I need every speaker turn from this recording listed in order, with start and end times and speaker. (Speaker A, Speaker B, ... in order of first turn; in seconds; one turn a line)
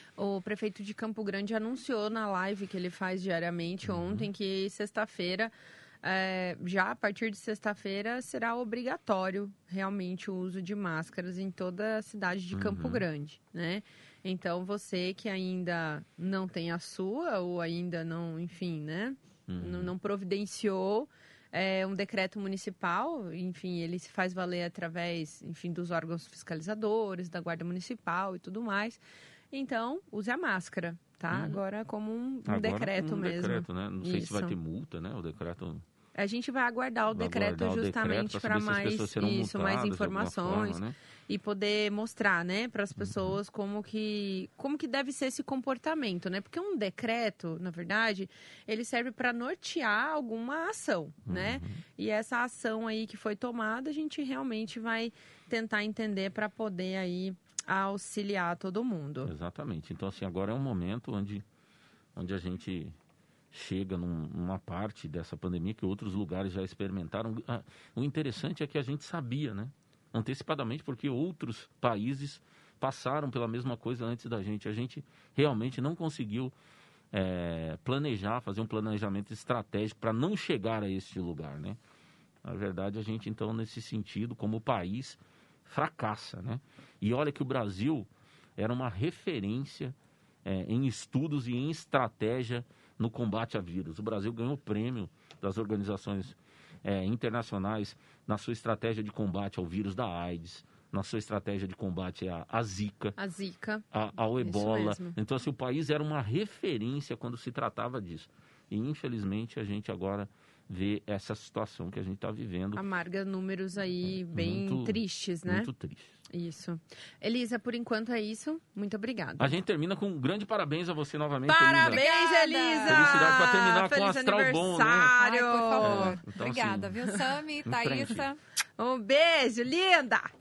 Speaker A: 0.2-34.6
Speaker B: 3.8-4.3
Speaker B: 12.5-13.1
Speaker B: 19.5-19.9
Speaker B: 31.3-31.6
Speaker B: 32.5-35.8
Speaker A: 36.1-59.3
Speaker B: 37.1-41.0
Speaker B: 43.0-43.4
Speaker B: 51.3-51.8
Speaker B: 59.2-61.4
Speaker B: 62.1-63.0
Speaker B: 63.5-76.5
Speaker B: 77.1-81.8
Speaker B: 82.5-103.2
Speaker A: 103.2-103.8
Speaker B: 103.9-112.8
Speaker A: 104.4-105.2
Speaker A: 112.8-115.7
Speaker B: 114.0-116.2
Speaker A: 116.3-119.6
Speaker B: 119.4-122.0
Speaker A: 121.5-126.2
Speaker C: 121.9-123.2
Speaker B: 122.9-125.1
Speaker C: 125.0-128.4
Speaker B: 125.8-127.0
Speaker B: 127.7-128.3
Speaker A: 128.8-130.3